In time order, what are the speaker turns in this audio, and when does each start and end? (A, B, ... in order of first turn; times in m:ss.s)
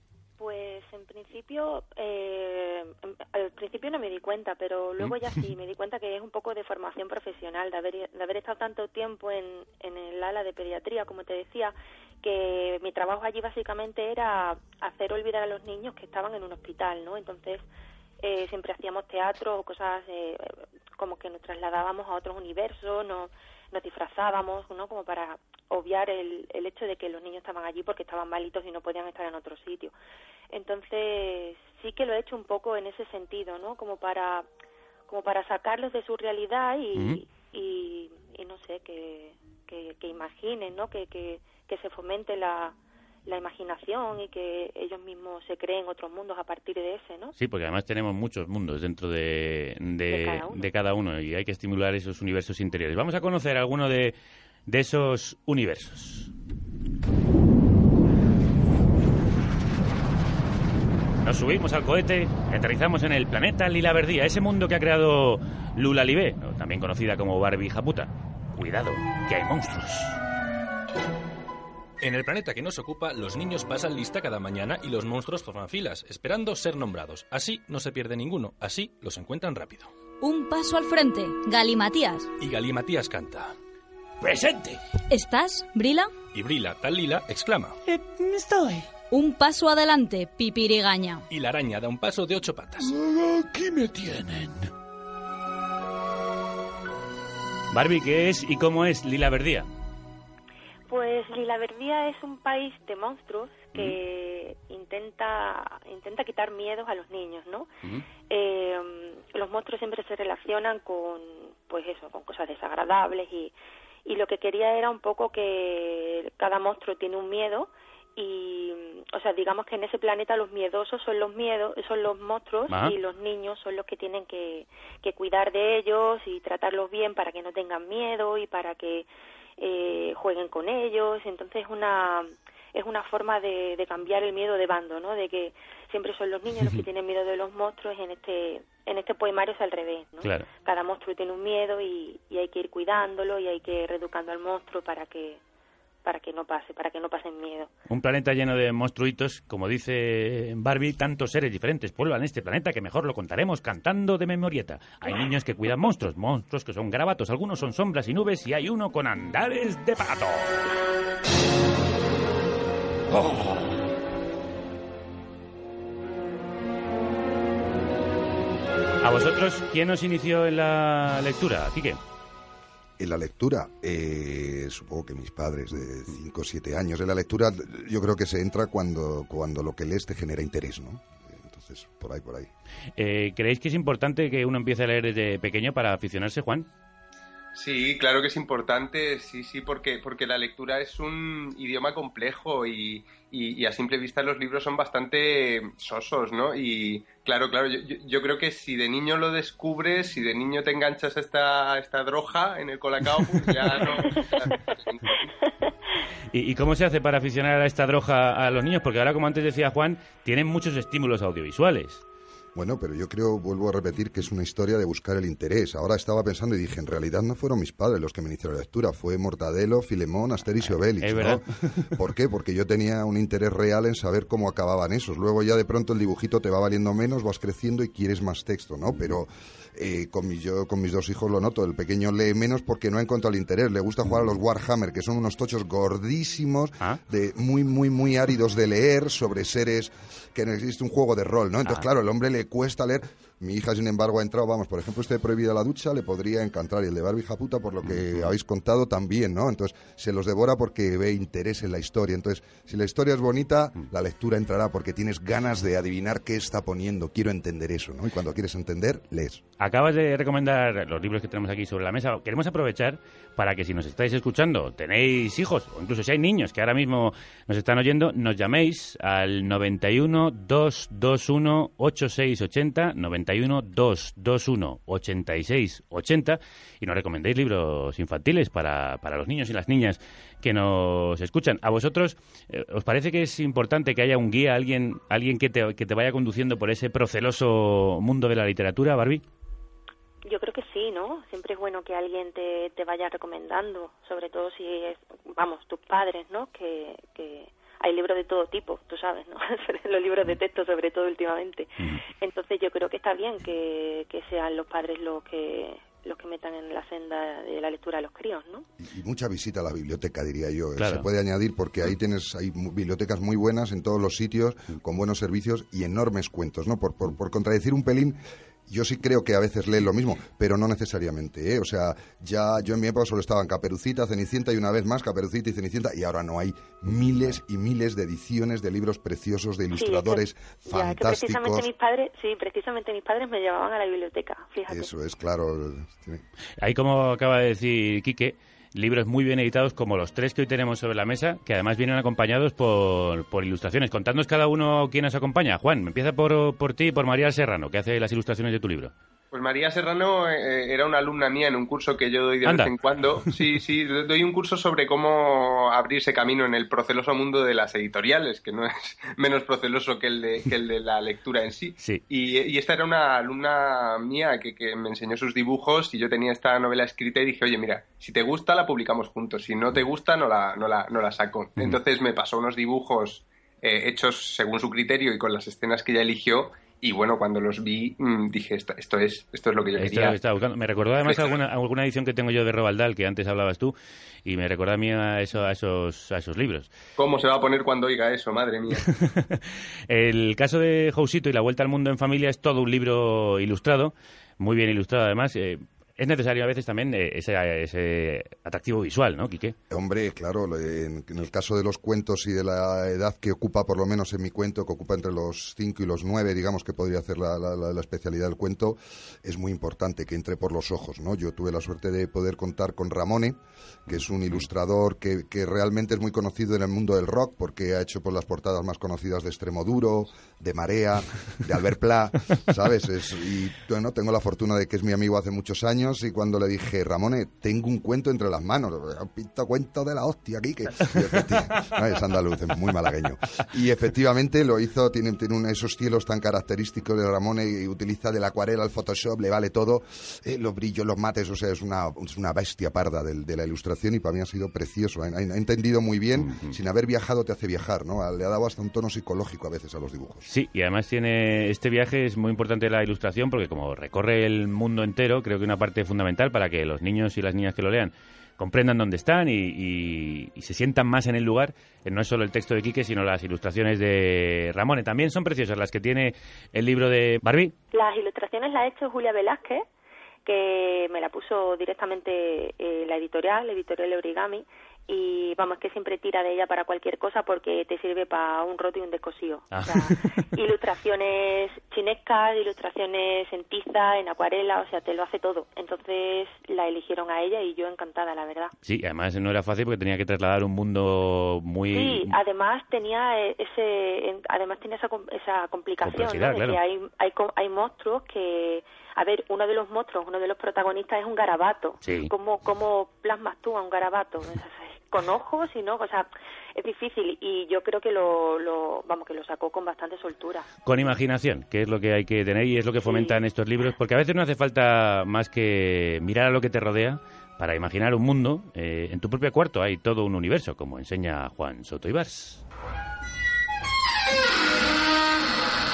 0:00.4-0:17.6 A
0:18.2-0:29.9 A
0:30.5-0:34.5 A
0:35.1-0:42.8 A
0:43.3-0:47.4 A
0:47.4-0:54.2 B
0:50.1-0:50.7 A
0:54.7-0:56.3 B
1:01.2-1:10.2 B
1:12.0-1:19.9 C
1:20.2-1:22.3 D
1:22.4-1:23.5 C
1:24.2-1:24.8 B
1:25.1-1:26.1 D
1:26.3-1:27.8 C
1:27.9-1:28.9 B
1:29.1-1:31.3 D
1:31.3-1:32.9 C
1:32.8-1:34.7 B
1:37.7-1:39.7 B
1:40.9-1:47.7 A
1:48.3-1:53.5 A
1:54.1-2:09.1 A
2:09.6-2:25.4 A
2:26.0-2:27.7 A
2:27.9-2:40.5 B
2:43.1-2:43.7 B
2:49.0-2:52.0 B
2:53.0-3:02.5 E
3:03.0-3:06.7 B
3:07.6-3:25.3 F
3:26.3-3:32.0 B
3:32.6-4:19.4 E
3:41.0-3:42.0 B
4:07.9-4:08.3 B
4:19.6-4:49.2 B
4:50.2-5:08.7 A
5:08.8-5:18.2 E
5:10.8-5:11.1 B
5:18.7-5:31.7 E
5:29.7-5:34.9 A
5:34.7-5:36.2 E
5:36.6-5:48.9 B
5:49.3-6:20.2 F
5:52.4-5:52.7 B
6:19.8-6:26.7 B
6:21.1-6:21.4 F
6:27.0-6:28.9 F
6:28.8-6:39.6 B
6:39.7-7:30.3 E
7:26.2-7:26.5 B
7:30.3-7:47.5 B
7:47.7-7:49.6 A
7:50.2-8:08.5 A
7:59.5-8:00.0 B
8:08.6-8:12.2 B
8:11.7-8:30.5 A
8:15.8-8:16.6 B
8:21.8-8:22.1 B
8:30.7-8:42.4 B
8:32.9-8:33.2 A